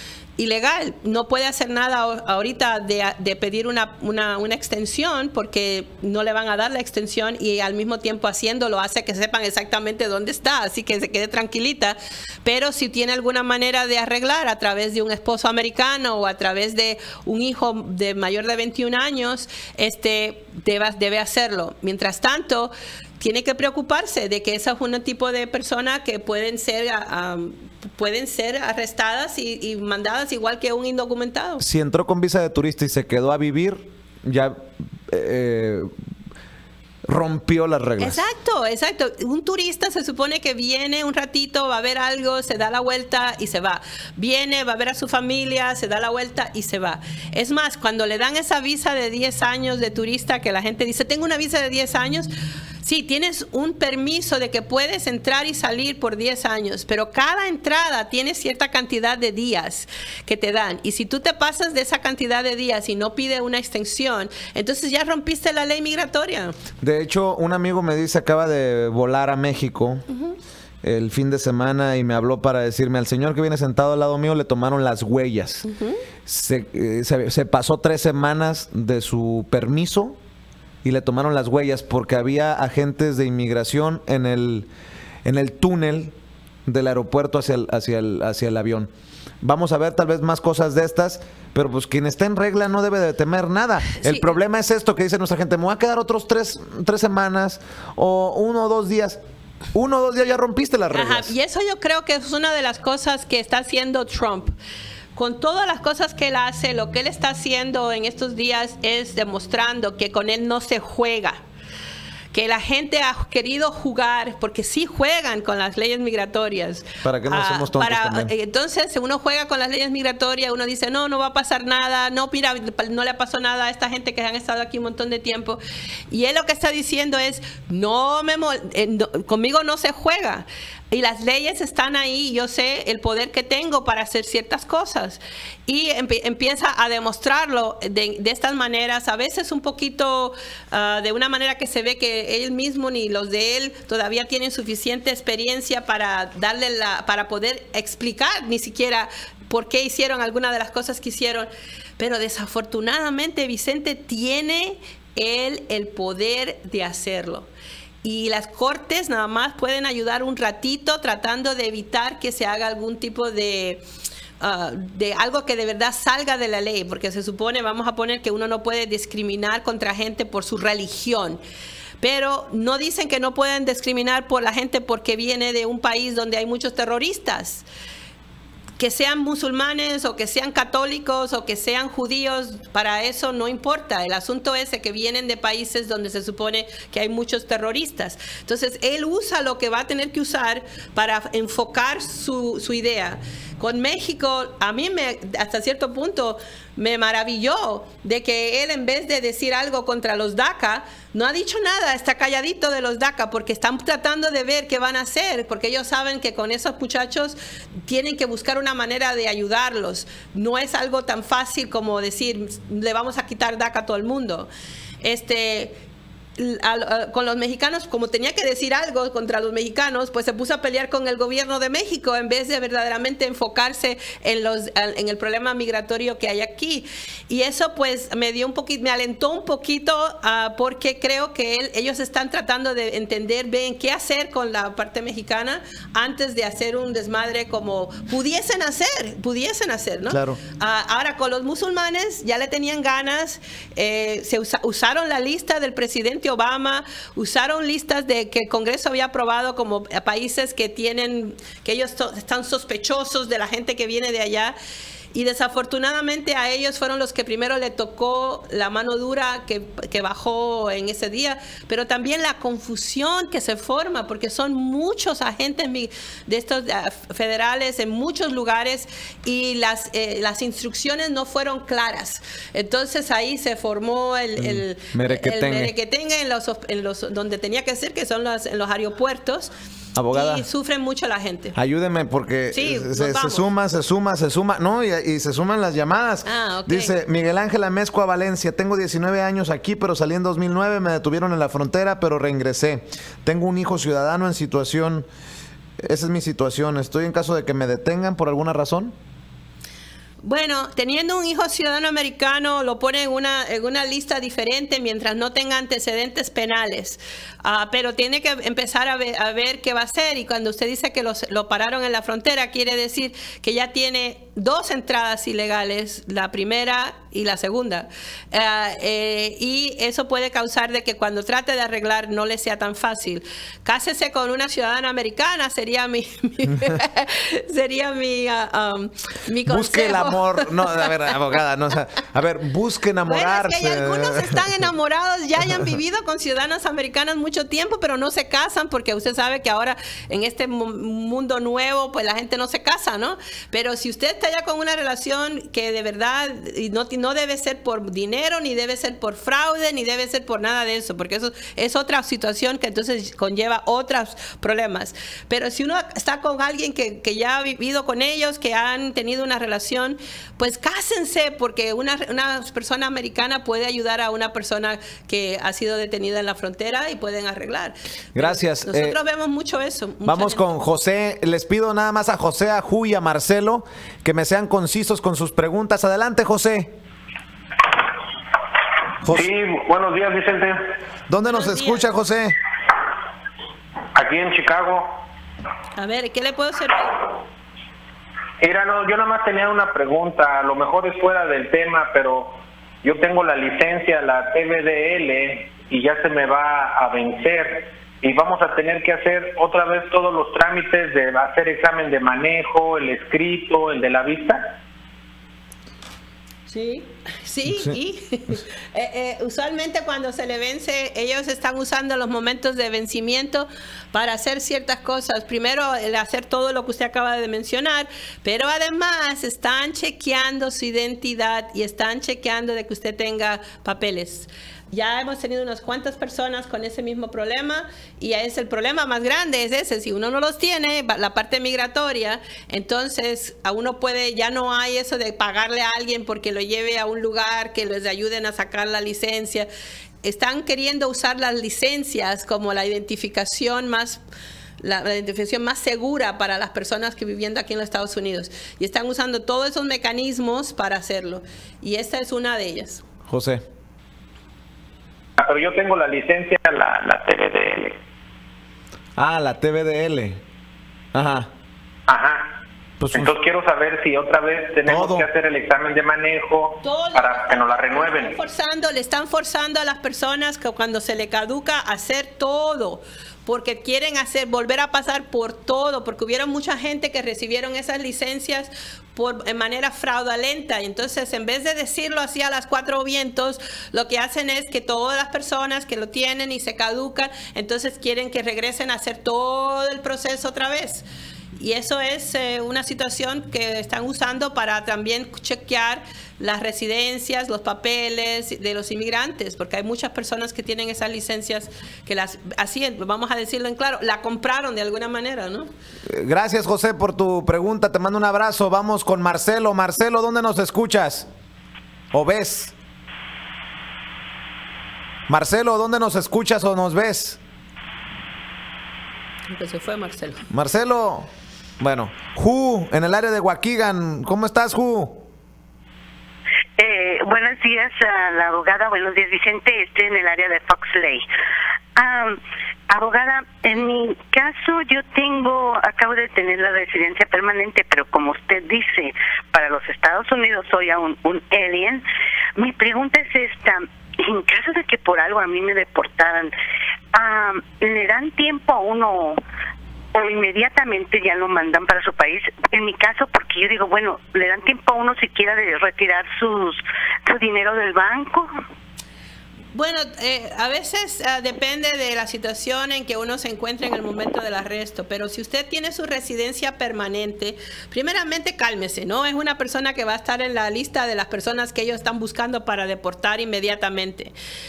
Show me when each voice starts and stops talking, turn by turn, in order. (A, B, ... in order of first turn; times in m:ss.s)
0:00.4-0:31.6 A
0:31.6-0:35.9 B
0:37.0-0:38.2 B
0:38.0-0:52.3 A
0:52.8-1:06.5 A
1:06.8-1:10.0 B
1:10.8-1:15.6 B
1:15.6-1:16.0 A
1:16.2-1:20.2 B
1:20.8-1:24.7 B
1:25.2-1:26.1 B
1:26.7-1:28.9 B
1:29.4-1:39.2 B
1:34.0-1:34.4 A
1:39.7-1:41.3 B
1:40.9-1:44.5 A
1:45.2-1:51.4 A
1:52.3-2:05.6 A
1:57.0-1:58.3 B
2:06.1-2:37.5 A
2:38.0-2:43.8 A
2:44.4-2:51.4 A
2:52.0-2:57.6 A
2:58.8-3:34.5 A
3:35.0-3:35.8 A
3:36.4-4:14.6 A
4:00.1-4:00.4 B
4:15.1-4:39.5 A
4:34.4-4:35.7 B
4:40.0-4:40.4 B
4:40.1-4:41.6 A
4:41.5-4:55.1 B
4:42.5-4:43.4 A
4:46.2-4:47.0 A
4:55.8-4:58.9 B
5:00.2-5:30.9 A
5:29.4-5:34.4 B
5:33.0-6:10.4 A
6:08.1-6:09.0 B
6:10.0-6:16.7 B
6:19.0-6:20.7 C
6:21.1-6:22.3 B
6:21.2-6:21.8 A
6:23.9-6:25.0 C
6:25.8-6:27.1 A
6:28.4-6:44.6 C
6:46.5-7:19.5 A
7:20.0-7:24.0 A
7:24.6-7:32.8 A
7:33.1-7:33.4 B
7:35.2-7:37.8 C
7:39.0-7:40.2 B
7:40.9-7:41.3 B
7:41.9-7:42.4 C
7:42.8-7:43.1 B
7:42.9-7:48.2 C
7:44.6-7:45.1 B
7:46.6-8:10.8 A
8:11.4-8:25.5 A
8:25.8-8:31.1 B
8:31.9-8:32.5 B
8:35.1-8:37.2 B
8:39.3-8:40.2 A
8:40.3-8:41.1 B
8:41.6-8:45.0 B
8:46.6-8:51.0 D
8:51.8-9:01.8 D
9:02.4-9:06.3 D
9:06.9-9:09.2 D
9:09.9-9:18.3 D
9:19.5-9:34.1 A